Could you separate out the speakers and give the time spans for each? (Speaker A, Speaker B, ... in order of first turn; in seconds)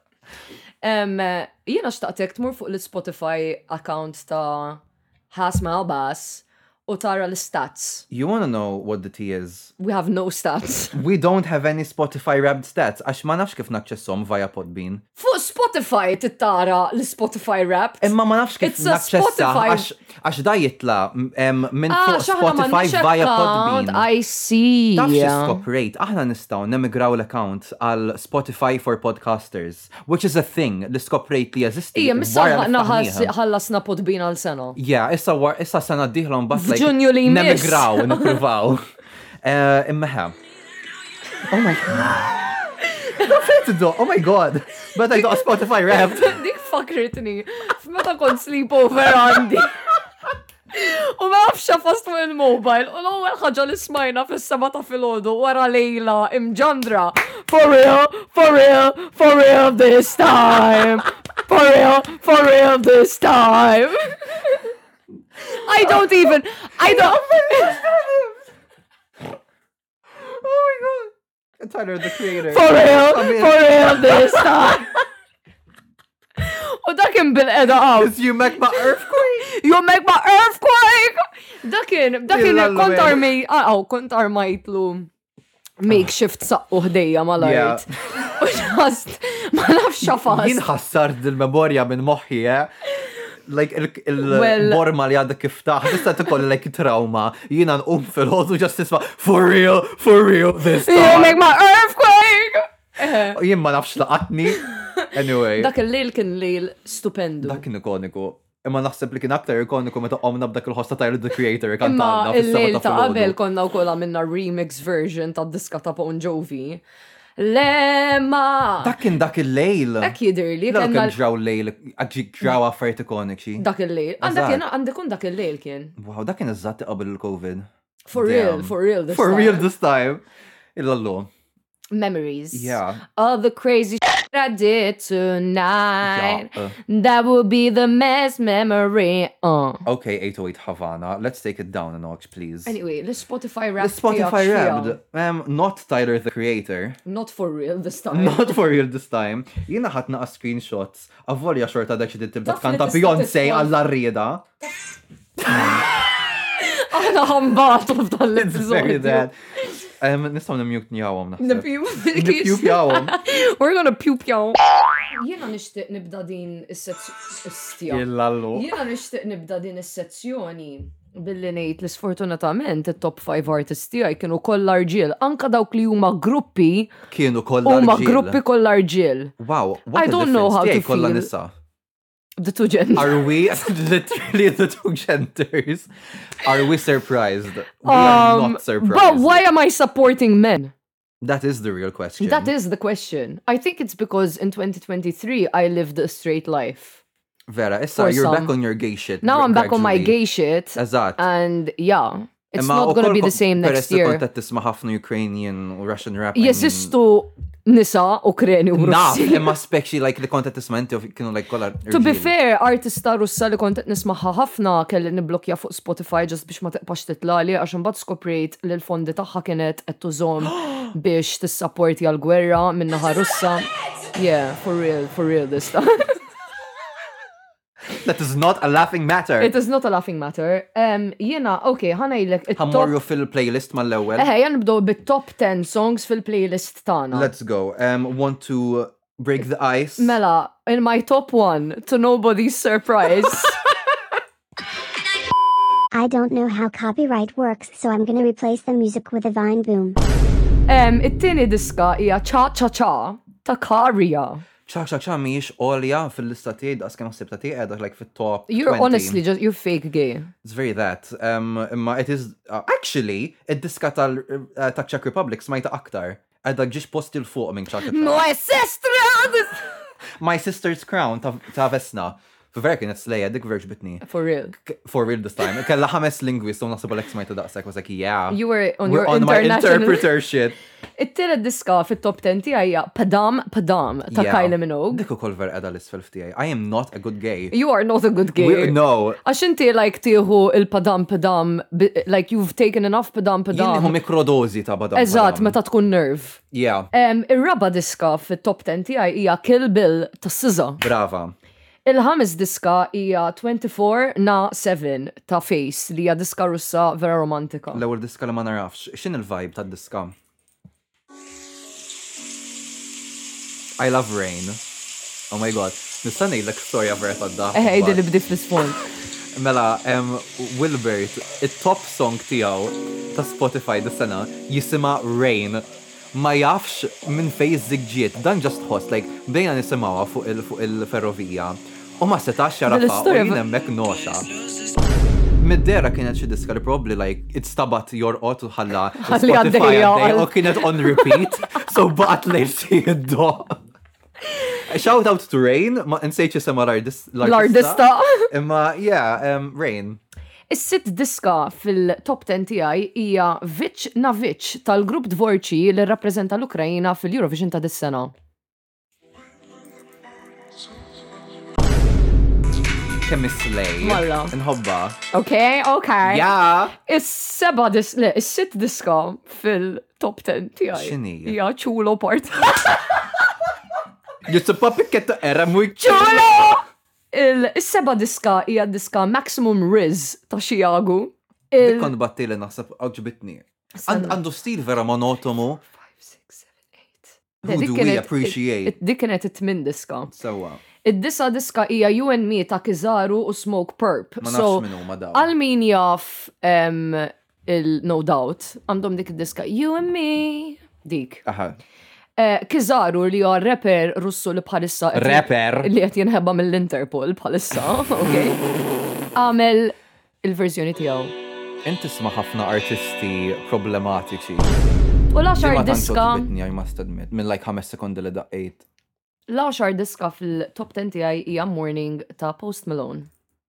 Speaker A: 0.8-8.1, 9.8-11.0, 15.2-19.9, 21.9-25.6, 31.9-34.8, 36.5-38.4, 45.9-49.8, 50.7-64.6, 65.5-67.8, 72.4-74.9, 76.4-78.2, 79.1-85.1, 85.8-90.7, 94.2-94.9, 100.8-103.4, 104.6-107.6, 111.8-116.8, 117.4-119.0, 120.0-121.2, 123.6-126.0, 128.1-129.7, 131.9-139.8, 142.7-145.0, 147.1-148.5, 152.4-153.8, 156.6-159.3, 161.4-164.6, 165.1-176.9, 177.6-179.3, 179.9-181.3, 182.4-183.3, 187.8-190.7, 192.2-197.0, 197.9-198.5, 199.2-204.2, 206.3-209.5, 211.9-226.2, 229.4-232.9, 234.2-237.3, 240.0-243.6, 250.7-254.4, 258.5-260.3, 267.9-269.7, 274.0-274.5, 278.3-280.1, 281.0-285.0, 287.5-294.0, 294.9-296.4, 296.9-300.8, 301.9-307.8, 317.5-318.8, 332.7-333.4, 339.0-341.3, 347.2-348.3, 350.5-358.1, 363.8-364.3, 365.1-373.0, 375.8-381.9, 383.8-384.2, 385.8-390.1, 390.8-401.2, 402.2-408.4, 409.1-411.1, 415.1-416.3, 419.3-423.1
Speaker B: 8.1-9.7, 10.9-15.0, 18.0-24.1, 24.9-33.3, 34.8-38.8, 39.4-40.4, 41.5-46.4, 66.8-68.4, 70.2-74.5, 77.9-79.5, 82.3-83.3, 87.4-87.9, 90.0-92.7, 93.5-101.4, 103.0-105.7, 107.4-113.4, 118.8-120.2, 120.7-123.7, 124.2-124.7, 126.0-130.2, 130.8-131.3, 132.5-133.0, 136.0-136.8, 139.8-142.8, 143.8-147.0, 148.1-154.5, 155.4-155.9, 158.3-159.3, 160.0-163.2, 167.9-168.7, 177.1-178.4, 179.4-181.5, 183.0-189.4, 191.2-192.5, 197.5-200.2, 200.8-201.2, 202.5-206.9, 208.8-212.3, 227.9-229.5, 232.6-234.3, 237.1-240.2, 254.7-259.2, 260.4-268.2, 270.2-274.0, 274.6-280.6, 284.1-287.5, 288.4-289.2, 293.5-295.6, 296.5-296.9, 300.8-301.4, 307.7-310.1, 313.8-314.6, 315.3-318.0, 319.3-334.3, 335.4-343.6, 344.5-350.0, 363.0-365.0, 366.0-366.8, 370.7-371.4, 374.2-376.5, 381.6-385.6, 387.4-388.8, 390.1-390.6, 394.2-395.3, 401.2-401.6, 404.9-405.7, 411.6-414.5, 415.4-418.6
Speaker C: 245.9-250.0